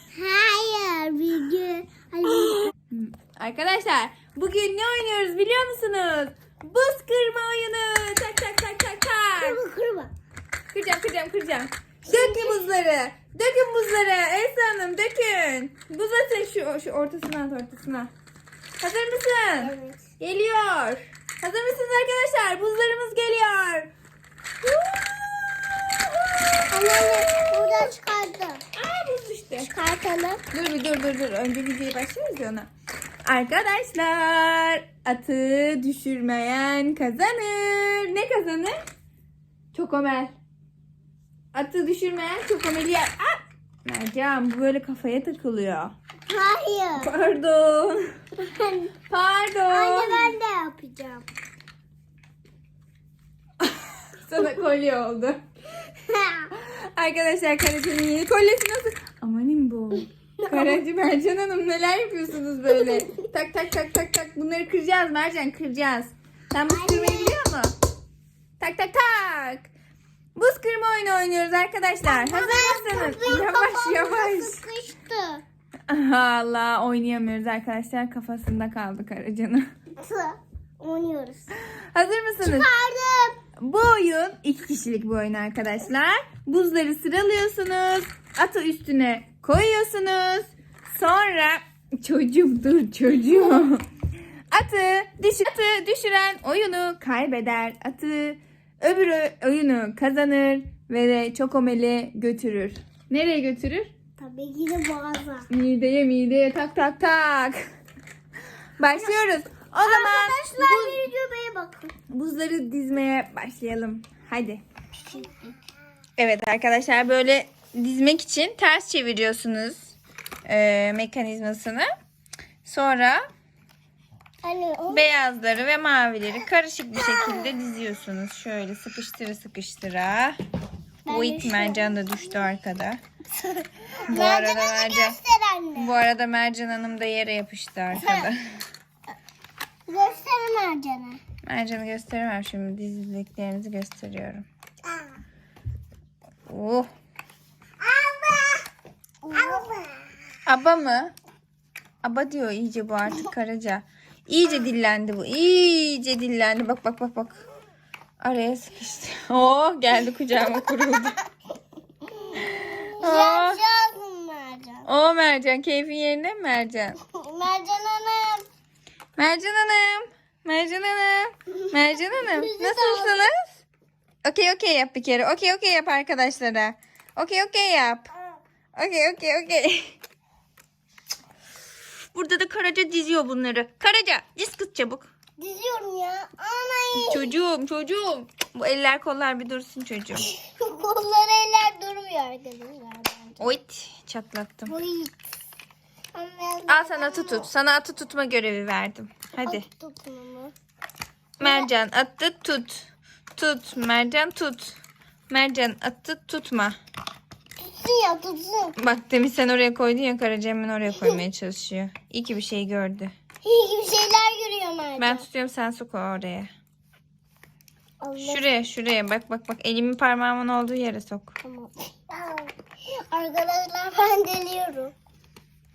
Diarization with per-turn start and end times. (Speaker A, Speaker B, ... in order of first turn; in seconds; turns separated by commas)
Speaker A: 0.1-2.7, Speaker B: 2.9-9.6, Speaker A: 9.3-10.1, Speaker B: 10.7-18.1, Speaker A: 12.1-12.6, Speaker B: 18.8-23.9, Speaker A: 19.6-20.0, Speaker B: 24.6-27.9, Speaker A: 26.7-28.6, Speaker B: 28.7-29.7, Speaker A: 29.6-30.4, Speaker B: 30.5-32.7, Speaker B: 33.2-38.8, Speaker B: 39.7-40.3, Speaker B: 41.5-45.9, Speaker A: 46.3-47.1, Speaker B: 47.0-48.0, Speaker A: 48.4-48.9, Speaker B: 49.1-50.4, Speaker A: 49.7-51.2, Speaker B: 53.6-55.4, Speaker A: 55.9-56.5, Speaker B: 56.5-67.7, Speaker A: 66.7-67.4, Speaker B: 68.6-69.7, Speaker B: 70.3-74.6, Speaker A: 72.0-75.4, Speaker B: 75.9-79.7, Speaker A: 80.0-81.5, Speaker B: 81.8-82.7, Speaker A: 82.4-83.4, Speaker B: 83.6-93.8, Speaker B: 94.5-103.9, Speaker A: 104.2-105.5, Speaker B: 105.5-107.6, Speaker B: 108.8-111.0, Speaker A: 109.8-111.9, Speaker B: 112.1-114.6, Speaker A: 115.0-115.5, Speaker B: 116.2-119.9, Speaker B: 120.5-121.9, Speaker B: 122.6-123.2, Speaker A: 124.4-125.0, Speaker B: 124.9-130.4, Speaker A: 127.0-127.5, Speaker A: 131.1-131.9, Speaker B: 131.1-133.0, Speaker A: 133.4-135.9, Speaker B: 134.1-135.2, Speaker B: 135.7-138.6, Speaker A: 138.0-138.3, Speaker A: 139.9-141.2, Speaker B: 141.4-144.4, Speaker B: 146.5-146.9, Speaker A: 147.8-148.7, Speaker A: 149.2-150.1, Speaker B: 150.4-151.1, Speaker B: 152.0-157.4, Speaker B: 158.2-161.2, Speaker A: 162.1-164.9, Speaker B: 162.3-163.6, Speaker B: 164.8-167.0, Speaker A: 167.0-168.4, Speaker B: 169.2-173.6, Speaker A: 172.2-173.2, Speaker B: 174.2-178.1, Speaker B: 178.7-180.0, Speaker B: 182.0-185.1, Speaker A: 185.4-187.3, Speaker B: 186.9-190.3, Speaker A: 190.2-193.5, Speaker B: 193.4-194.7, Speaker A: 194.7-195.2, Speaker A: 196.1-197.5, Speaker B: 196.7-199.7, Speaker A: 199.4-200.5, Speaker A: 201.4-201.7, Speaker B: 201.4-204.8, Speaker B: 205.3-206.8, Speaker A: 207.6-208.8, Speaker B: 208.8-213.1, Speaker A: 213.4-215.2, Speaker B: 215.0-216.5, Speaker A: 218.0-218.6, Speaker B: 218.2-221.3, Speaker A: 221.4-224.9